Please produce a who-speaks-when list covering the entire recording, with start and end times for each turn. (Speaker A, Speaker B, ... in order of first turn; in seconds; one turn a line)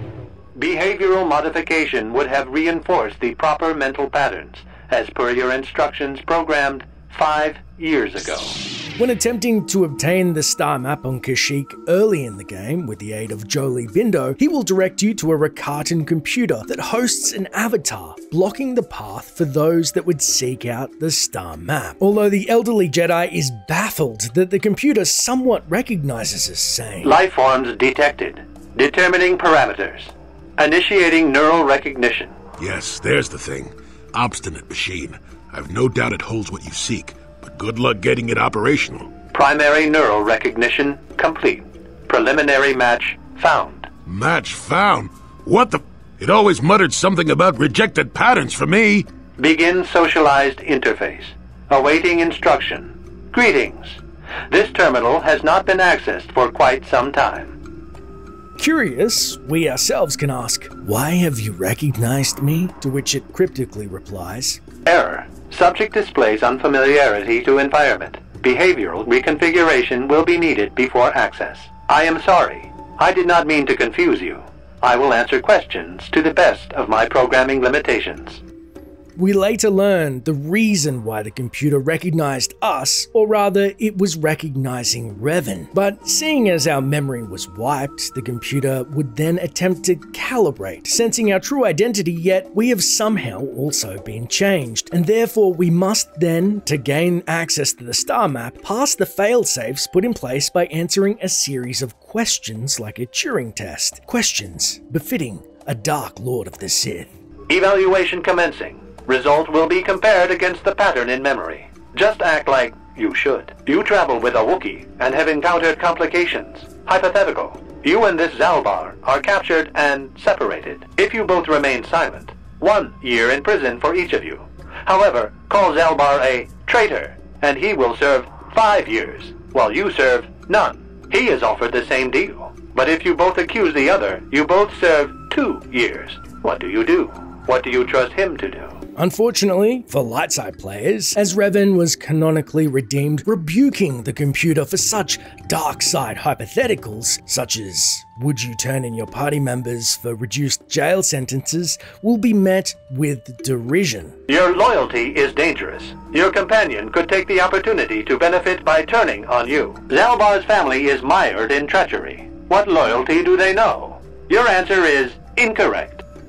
Speaker A: 0.6-8.6
Speaker B: 9.0-27.2
Speaker A: 27.0-32.3
Speaker C: 32.6-39.1
Speaker A: 39.3-43.9
Speaker C: 44.0-49.1
Speaker A: 49.4-57.6
Speaker B: 58.6-64.6
Speaker A: 64.9-78.4
Speaker B: 79.2-107.1
Speaker A: 107.5-138.8
Speaker B: 138.9-154.2
Speaker A: 154.3-166.0